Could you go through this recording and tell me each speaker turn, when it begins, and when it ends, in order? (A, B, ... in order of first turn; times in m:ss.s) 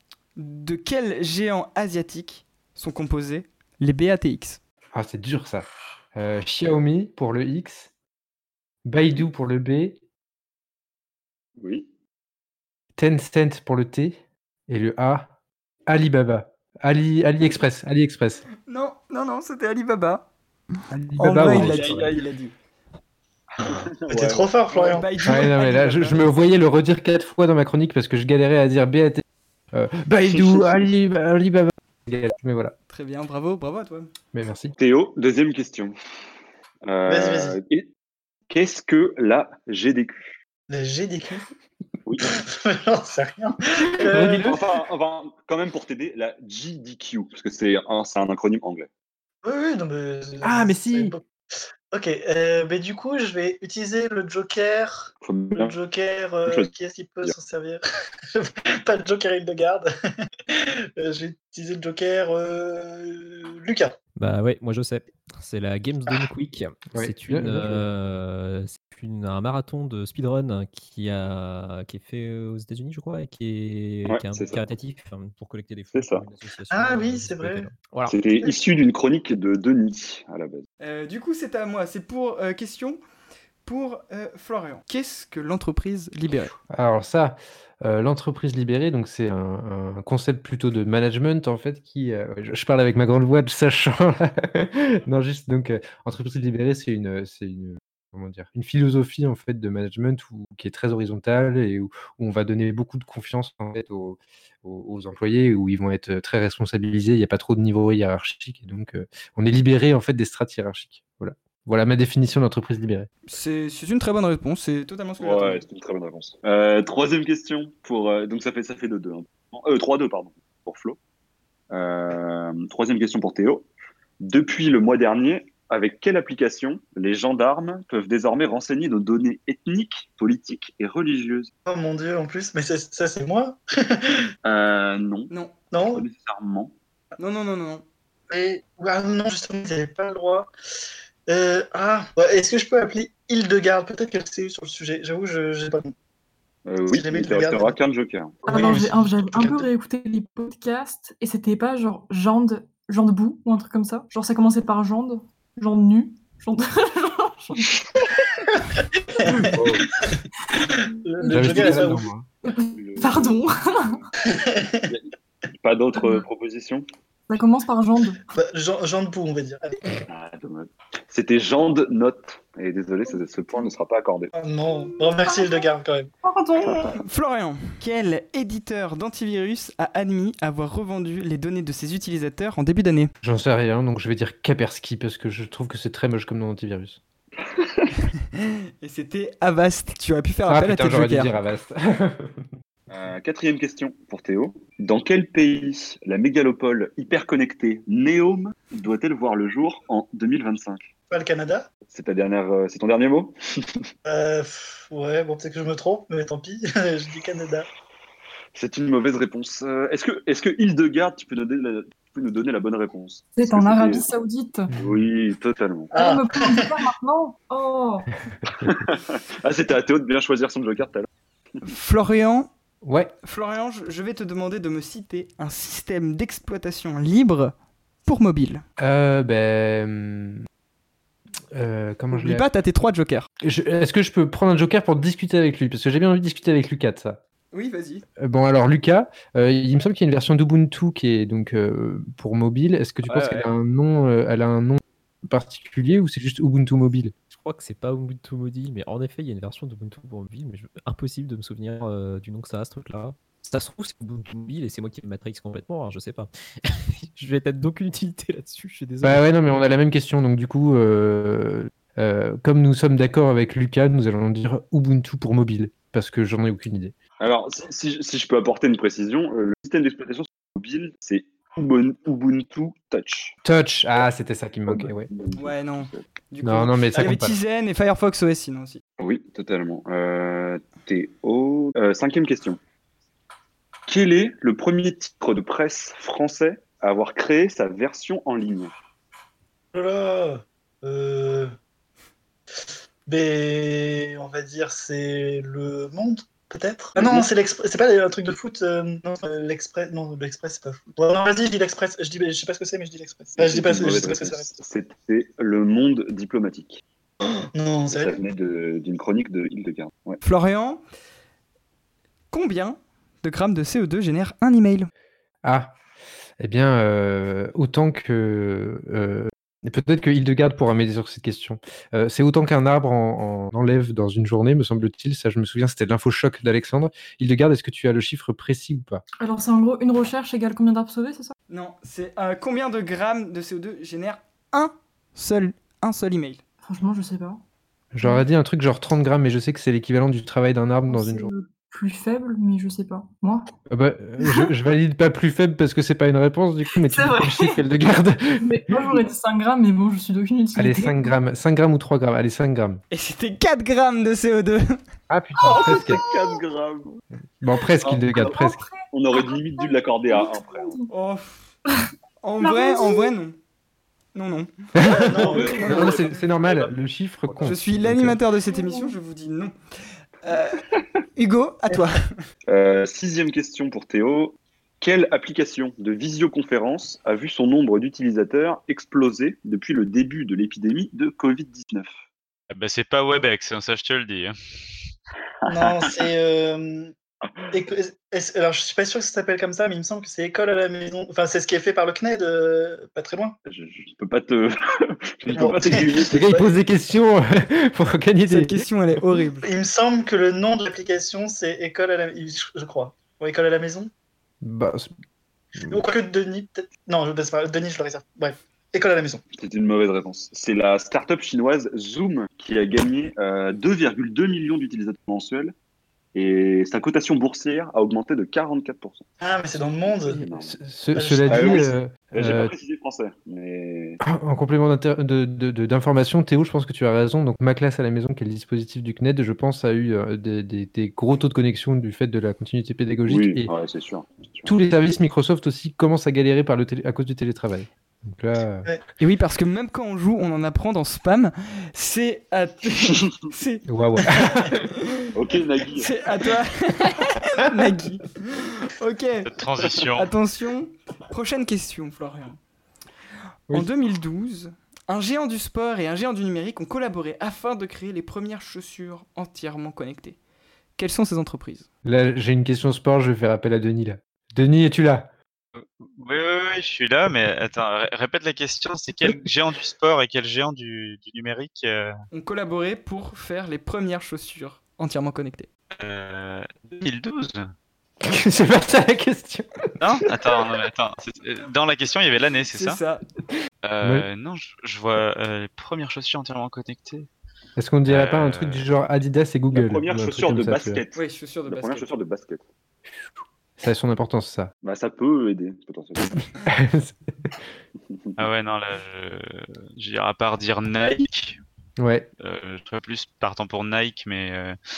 0:00.4-0:04.6 A
0:04.9-0:07.9 B
0:08.8-0:10.0 B
0:11.6-0:11.9 C
0:13.0-0:15.3 B
0:15.9-0:18.4 B
0:18.7-0:20.3 A
0:20.9-0:21.9 B
0:21.2-0:22.5 A
0:21.5-0:22.0 D
0:23.6-0:24.5 C
0:24.1-0:25.1 E
0:24.7-0:26.2 A
0:25.2-0:32.7 B
0:32.9-0:34.1 A
0:34.3-0:34.7 B
0:34.8-0:35.9 C
0:36.8-0:37.9 C
0:37.1-0:37.6 E
0:38.5-0:40.4 C
0:40.7-0:41.4 E
0:42.2-0:44.6 E
0:43.9-0:44.6 B
0:44.1-0:48.9 C
0:49.4-0:51.2 E
0:50.4-0:51.2 B
0:51.9-0:57.8 E
0:55.2-0:55.7 C
0:56.4-0:56.7 C
0:58.3-0:59.9 E
1:00.5-1:03.9 E
1:04.2-1:18.1 D
1:06.9-1:07.8 B
1:14.1-1:14.6 C
1:15.9-1:16.2 C
1:16.7-1:17.7 E
1:18.1-1:20.6 C
1:20.8-1:23.0 A
1:23.6-1:26.5 A
1:26.7-1:53.1 B
1:53.3-1:55.6 A
1:55.2-2:01.0 C
2:01.7-2:03.7 C
2:04.2-2:11.5 C
2:11.6-2:14.3 E
2:14.4-2:16.7 C
2:15.3-2:15.5 A
2:15.7-2:16.0 E
2:17.2-2:17.8 A
2:18.3-2:20.5 E
2:21.3-2:25.9 E
2:26.6-2:28.4 C
2:26.9-2:27.8 E
2:28.4-2:29.7 E
2:28.4-2:37.7 F
2:39.2-2:39.7 F
2:39.2-2:39.8 E
2:39.5-2:39.8 B
2:40.7-2:42.0 E
2:41.2-2:44.0 F
2:41.3-2:42.3 B
2:42.7-2:43.5 C
2:44.2-2:44.9 E
2:45.6-2:46.8 C
2:46.0-2:46.2 F
2:47.3-2:48.2 F
2:48.3-2:50.0 E
2:50.1-2:54.3 C
2:53.1-2:53.7 F
2:54.3-2:56.1 E
2:54.7-2:55.7 F
2:56.2-2:56.9 F
2:56.8-3:03.1 A
3:03.2-3:07.0 B
3:07.4-3:07.9 C
3:08.3-3:11.3 A
3:10.5-3:12.5 B
3:12.9-3:20.8 C
3:21.1-3:21.7 E
3:21.9-3:23.8 C
3:24.0-3:27.7 E
3:28.5-3:34.1 C
3:33.3-3:34.7 F
3:34.7-3:35.0 B
3:34.8-3:35.9 C
3:35.9-3:36.8 E
3:35.9-3:38.1 F
3:38.5-3:41.1 C
3:41.6-3:42.5 A
3:42.8-3:43.1 B
3:43.2-3:47.5 A
3:48.0-3:48.6 A
3:48.8-3:50.4 B
3:51.5-3:52.4 B
3:52.1-3:53.3 A
3:53.4-3:57.2 B
3:57.5-3:58.0 A
3:58.2-4:07.1 B
4:03.1-4:03.3 A
4:07.3-4:19.2 D
4:19.0-4:26.9 B
4:27.2-4:33.4 C
4:33.4-4:35.1 B
4:34.7-4:36.0 C
4:35.4-4:38.8 A
4:36.4-4:37.4 B
4:39.0-4:42.6 C
4:43.9-4:48.7 C
4:49.7-4:51.5 E
4:53.1-5:04.5 E
4:57.0-4:57.3 C
5:03.4-5:06.8 C
5:07.5-5:08.2 E
5:07.9-5:10.2 C
5:10.2-5:10.8 A
5:12.3-5:14.9 A
5:15.4-5:15.7 B
5:16.4-5:29.0 B
5:29.2-5:31.3 F
5:31.5-5:36.4 A
5:36.6-5:37.4 F
5:37.9-5:41.3 B
5:38.0-5:38.3 F
5:40.9-5:43.4 F
5:43.7-5:49.0 B
5:44.2-5:44.5 F
5:46.8-5:47.6 F
5:48.4-5:51.2 F
5:50.6-5:52.8 B
5:52.9-5:54.8 A
5:55.1-5:56.0 B
5:55.4-5:56.9 C
5:57.4-5:58.6 B
5:58.2-6:00.9 F
5:58.9-6:00.8 C
6:00.9-6:01.5 A
6:02.2-6:03.4 A
6:02.4-6:03.1 F
6:04.1-6:04.5 A
6:04.8-6:08.2 B
6:04.8-6:06.0 E
6:05.2-6:06.1 A
6:05.2-6:06.7 C
6:07.4-6:09.5 A
6:08.4-6:09.0 F
6:10.2-6:10.6 A
6:11.2-6:12.0 A
6:12.5-6:21.9 C
6:22.5-6:24.3 G
6:25.4-6:26.9 E
6:27.5-6:33.4 E
6:33.5-6:36.2 C
6:35.3-6:36.5 E
6:36.1-6:38.6 B
6:38.3-6:39.4 A
6:39.4-6:43.9 E
6:44.4-6:44.9 B
6:45.5-6:45.8 B
6:45.7-6:49.2 E
6:49.4-6:55.5 C
6:56.1-6:59.0 C
6:59.2-7:00.2 E
7:00.0-7:00.5 C
7:00.1-7:02.5 B
7:00.9-7:01.7 E
7:01.3-7:04.0 C
7:04.0-7:13.5 B
7:13.1-7:14.5 C
7:14.4-7:18.7 B
7:19.0-7:25.0 A
7:23.7-7:24.6 B
7:25.1-7:25.9 C
7:25.8-7:29.2 A
7:29.2-7:30.1 G
7:30.0-7:32.4 A
7:33.5-7:40.2 A
7:40.8-7:41.7 A
7:41.8-7:45.1 B
7:45.6-7:51.9 G
7:52.1-7:55.5 A
7:55.8-7:57.5 G
7:58.0-7:59.4 B
7:59.8-8:02.8 G
8:02.5-8:03.0 A
8:03.6-8:07.1 G
8:03.8-8:04.0 B
8:07.6-8:10.8 B
8:07.9-8:08.6 G
8:09.5-8:11.0 C
8:10.9-8:11.9 A
8:11.5-8:12.4 C
8:13.6-8:14.5 B
8:14.6-8:16.2 C
8:16.0-8:17.3 B
8:17.9-8:18.2 C
8:18.2-8:21.4 G
8:21.8-8:22.1 B
8:22.2-8:24.6 G